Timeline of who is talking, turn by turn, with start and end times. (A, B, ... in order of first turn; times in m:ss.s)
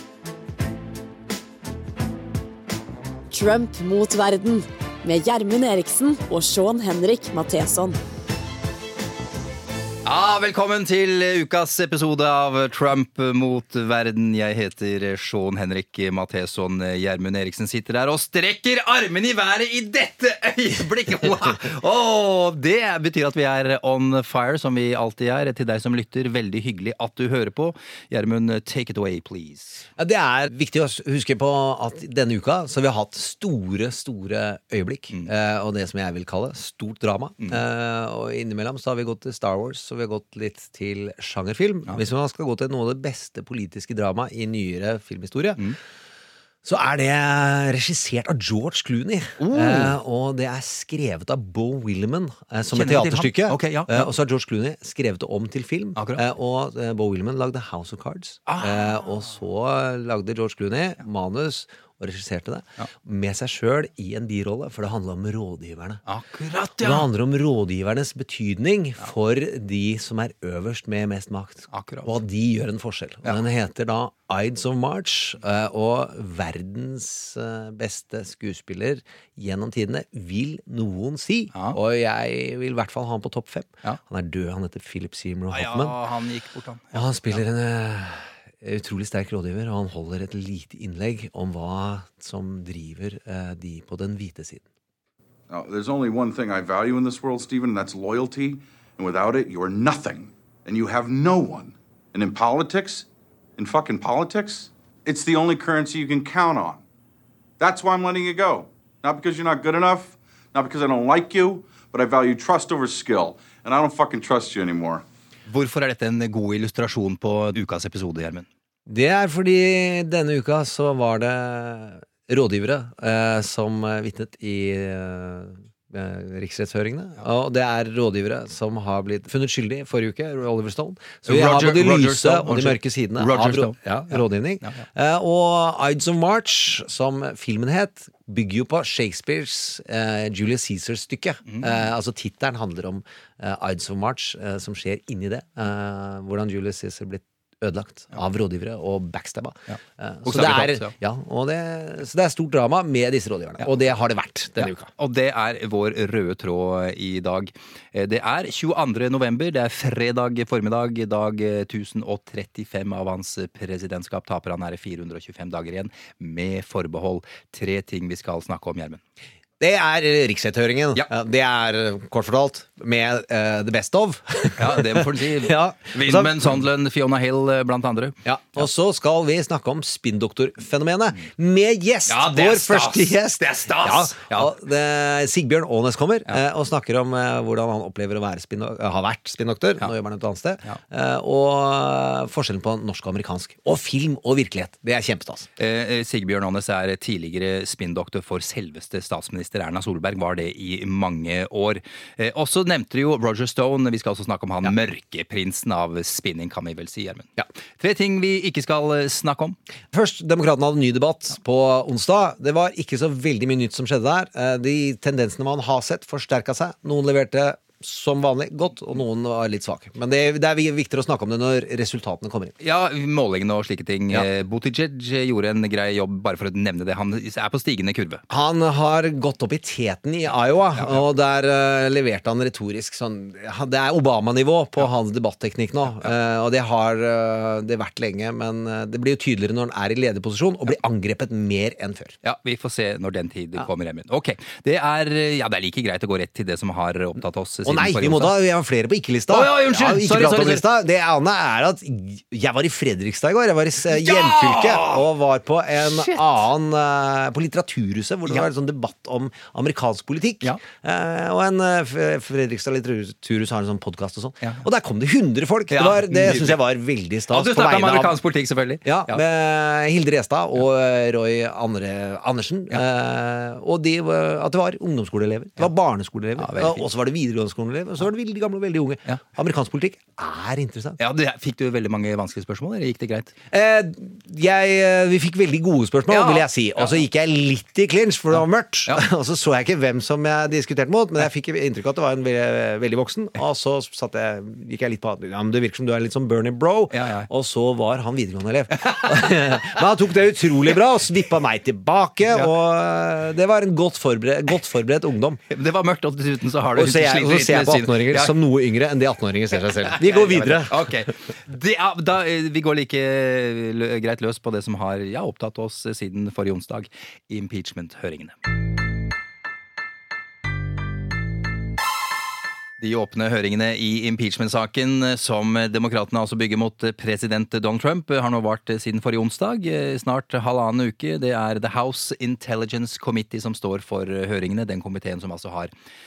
0:03.3-0:08.0 A
0:10.0-0:29.8 B
0:30.0-0:45.6 C
0:46.6-1:06.0 C
0:49.4-0:50.0 B
0:52.7-0:54.1 B
0:58.5-0:59.0 B
1:06.1-1:07.1 B
1:06.8-1:26.0 C
1:11.7-1:12.1 B
1:25.5-1:27.4 B
1:26.9-1:34.7 C
1:35.5-1:46.8 D
1:47.6-1:55.0 D
1:55.5-1:58.5 B
1:58.9-2:34.9 C
2:11.2-2:14.8 B
2:21.5-2:21.8 B
2:29.7-2:30.9 B
2:34.6-2:49.0 B
2:49.6-2:56.6 C
2:54.6-2:58.2 B
2:58.2-3:15.5 C
3:02.1-3:04.5 B
3:15.6-3:29.6 B
3:29.9-3:42.5 C
3:42.6-3:48.2 B
3:48.3-4:02.2 C
3:50.8-3:51.0 B
4:02.2-4:08.3 B
4:07.6-4:28.1 C
4:09.3-4:10.6 B
4:14.0-4:15.0 B
4:15.8-4:16.4 B
4:25.7-4:26.6 B
4:27.3-4:29.2 B
4:28.8-4:41.0 C
4:36.4-4:36.8 B
4:41.0-4:43.4 B
4:43.5-5:05.4 C
4:46.1-4:46.9 B
4:56.9-4:57.3 B
5:05.5-5:08.3 B
5:06.8-5:10.9 C
5:10.0-5:18.4 B
5:22.8-5:35.7 B